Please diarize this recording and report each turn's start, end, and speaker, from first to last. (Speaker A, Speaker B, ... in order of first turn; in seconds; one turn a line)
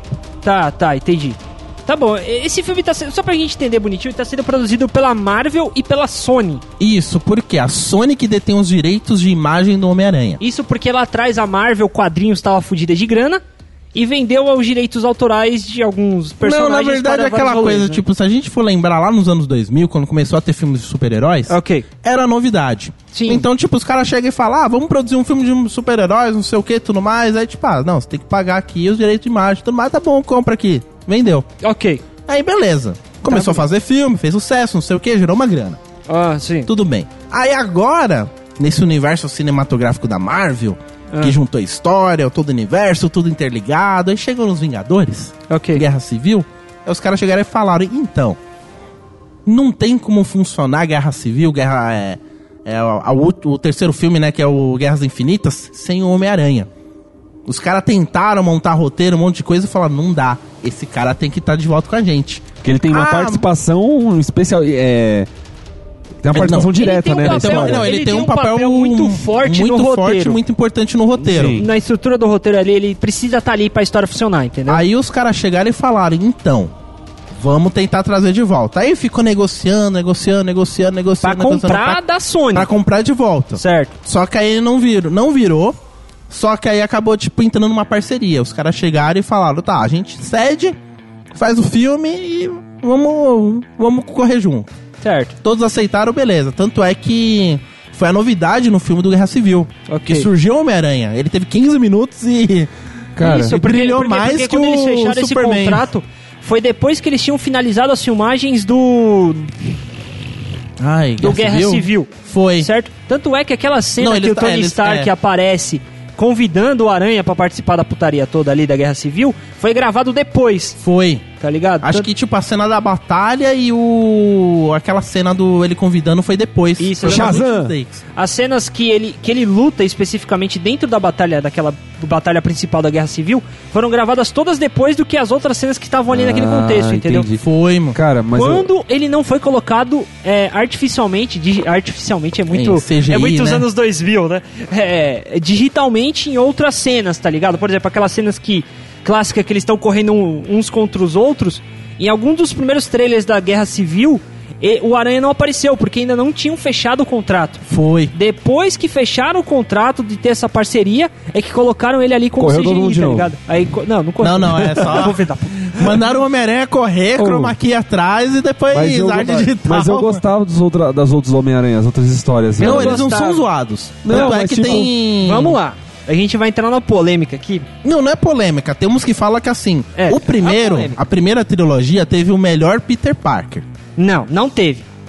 Speaker A: 0.4-6.6
Speaker B: 6.8-10.4
Speaker A: 10.4-13.4
Speaker A: 13.9-18.0
Speaker B: 16.4-31.5
Speaker A: 21.5-21.9
Speaker A: 23.1-23.4
Speaker A: 31.6-32.0
Speaker B: 32.3-35.8
Speaker A: 33.2-33.7
Speaker A: 36.1-36.7
Speaker B: 36.7-48.4
Speaker A: 45.5-45.8
Speaker B: 49.5-56.7
Speaker B: 57.5-63.4
Speaker C: 62.6-65.3
Speaker C: 66.2-67.9
Speaker B: 66.3-71.6
Speaker A: 66.8-70.4
Speaker C: 71.2-71.7
Speaker A: 71.5-74.8
Speaker B: 74.7-76.7
Speaker B: 77.4-82.0
Speaker A: 81.2-82.7
Speaker B: 82.5-85.8
Speaker A: 83.6-83.9
Speaker B: 86.3-90.8
Speaker B: 91.3-94.7
Speaker A: 95.0-95.3
Speaker B: 95.4-102.7
Speaker A: 99.9-100.3
Speaker C: 103.2-103.6
Speaker A: 103.2-109.5
Speaker B: 103.5-105.8
Speaker B: 110.8-112.7
Speaker A: 111.2-120.8
Speaker B: 114.0-115.1
Speaker B: 120.8-121.3
Speaker A: 121.4-122.1
Speaker B: 121.8-128.0
Speaker A: 126.8-127.5
Speaker C: 127.0-127.8
Speaker A: 128.2-137.3
Speaker C: 136.1-138.7
Speaker B: 137.4-138.0
Speaker A: 138.3-166.0
Speaker B: 142.5-143.7
Speaker B: 157.7-158.1
Speaker C: 162.4-163.3
Speaker B: 164.2-170.2
Speaker C: 167.2-167.6
Speaker C: 168.7-173.1
Speaker A: 172.6-173.5
Speaker B: 172.6-175.6
Speaker C: 174.0-174.9
Speaker A: 174.1-177.7
Speaker B: 177.8-183.7
Speaker A: 180.0-181.0
Speaker A: 184.0-184.9